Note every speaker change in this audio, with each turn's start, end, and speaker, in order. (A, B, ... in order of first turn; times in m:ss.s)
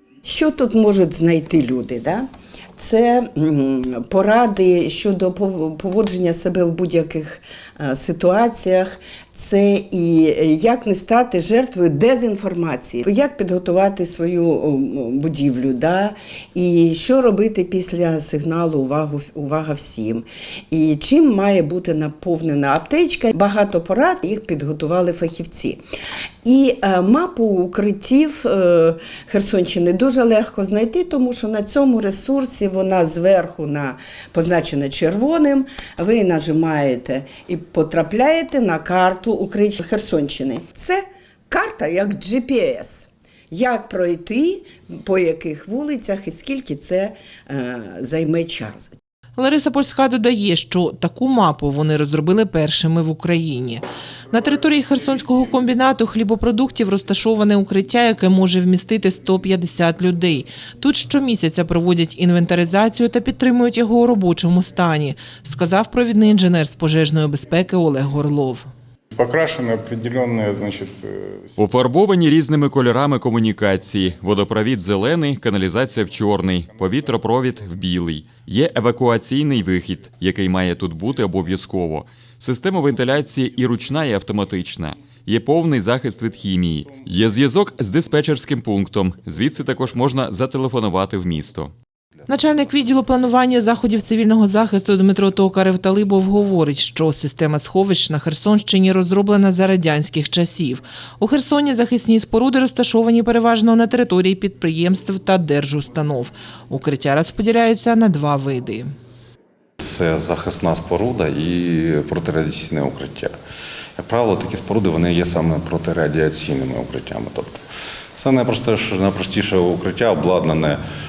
0:00.2-0:02.2 A
0:02.8-0:25.8 A
0:26.4-0:48.9 A
0:49.4-1:08.7 B
1:09.2-1:11.6 C
1:11.6-1:31.7 D
1:32.3-1:48.9 B
1:49.8-1:53.3 E
1:54.0-1:57.6 E
1:58.2-2:00.8 E